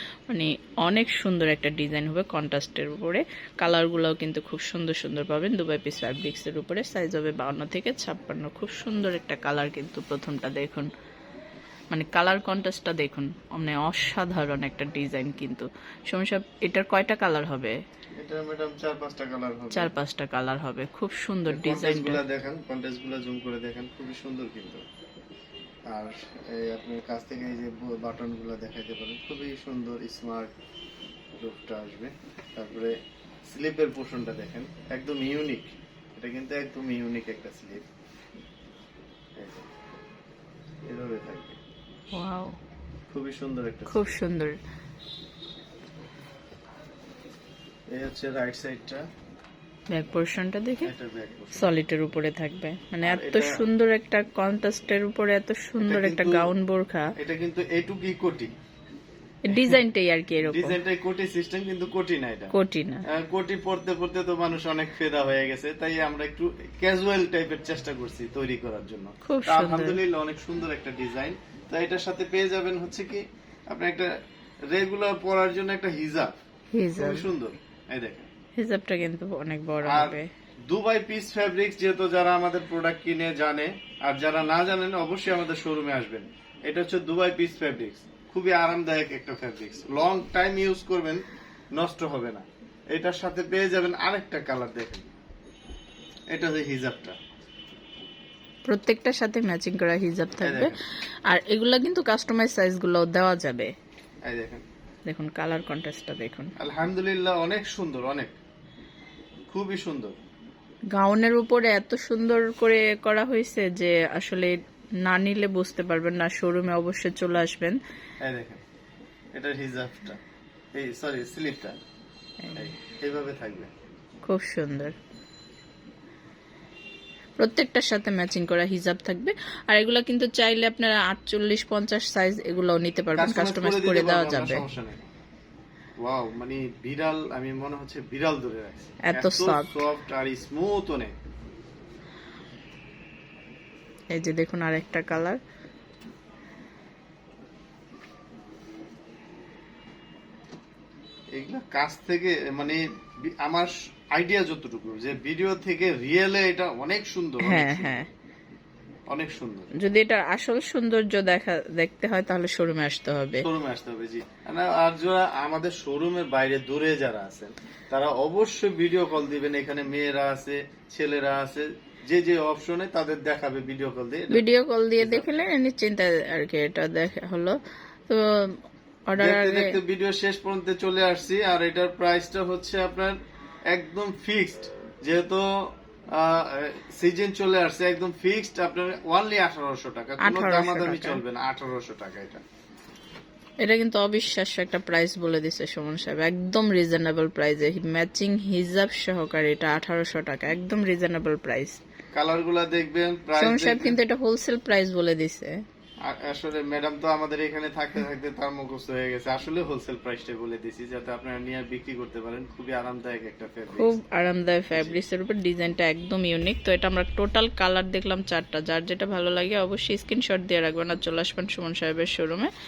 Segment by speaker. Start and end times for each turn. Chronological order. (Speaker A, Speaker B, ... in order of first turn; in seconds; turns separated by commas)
Speaker A: 0.3-10.9, Speaker A: 11.9-17.8, Speaker B: 18.2-19.9, Speaker A: 19.7-22.2, Speaker B: 21.5-24.8, Speaker B: 25.9-30.5, Speaker B: 31.4-32.9, Speaker B: 33.5-37.8, Speaker B: 39.4-39.8, Speaker B: 40.9-41.6, Speaker A: 42.1-42.5, Speaker B: 43.1-44.2, Speaker A: 43.9-44.5, Speaker B: 47.9-49.0, Speaker A: 49.9-50.9, Speaker B: 50.8-51.7, Speaker A: 51.5-57.1, Speaker B: 53.0-53.6, Speaker B: 55.8-56.5, Speaker B: 57.2-58.5, Speaker A: 59.5-60.8, Speaker B: 59.5-59.8, Speaker B: 60.5-62.5, Speaker A: 62.5-63.0, Speaker B: 63.1-74.1, Speaker A: 69.2-70.0, Speaker B: 74.7-76.3, Speaker A: 76.7-77.3, Speaker B: 77.0-78.3, Speaker A: 78.6-80.3, Speaker B: 79.8-80.2, Speaker B: 80.7-91.2, Speaker B: 91.8-95.1, Speaker B: 96.3-97.2, Speaker A: 98.7-100.8, Speaker B: 100.4-100.8, Speaker A: 101.3-103.7, Speaker B: 104.2-104.6, Speaker A: 105.1-106.5, Speaker B: 106.6-108.3, Speaker B: 109.5-110.2, Speaker A: 110.9-117.8, Speaker B: 118.2-118.6, Speaker B: 119.3-120.2, Speaker B: 120.8-121.7, Speaker B: 122.5-123.7, Speaker A: 124.2-124.9, Speaker A: 127.4-134.6, Speaker B: 133.2-135.0, Speaker B: 136.0-141.1, Speaker A: 139.1-139.8, Speaker A: 144.1-145.4, Speaker B: 151.3-158.0, Speaker A: 157.4-158.1, Speaker B: 159.1-159.7, Speaker A: 159.8-163.5, Speaker B: 163.4-174.4, Speaker A: 174.3-177.6, Speaker B: 175.0-175.3, Speaker A: 178.1-178.6, Speaker A: 179.1-179.8, Speaker B: 179.2-183.1, Speaker B: 183.7-185.5, Speaker B: 186.1-192.4, Speaker A: 190.2-191.2, Speaker A: 193.6-201.8, Speaker B: 202.1-204.0, Speaker A: 203.4-205.6, Speaker B: 206.1-213.9, Speaker A: 213.8-222.5, Speaker B: 214.7-215.0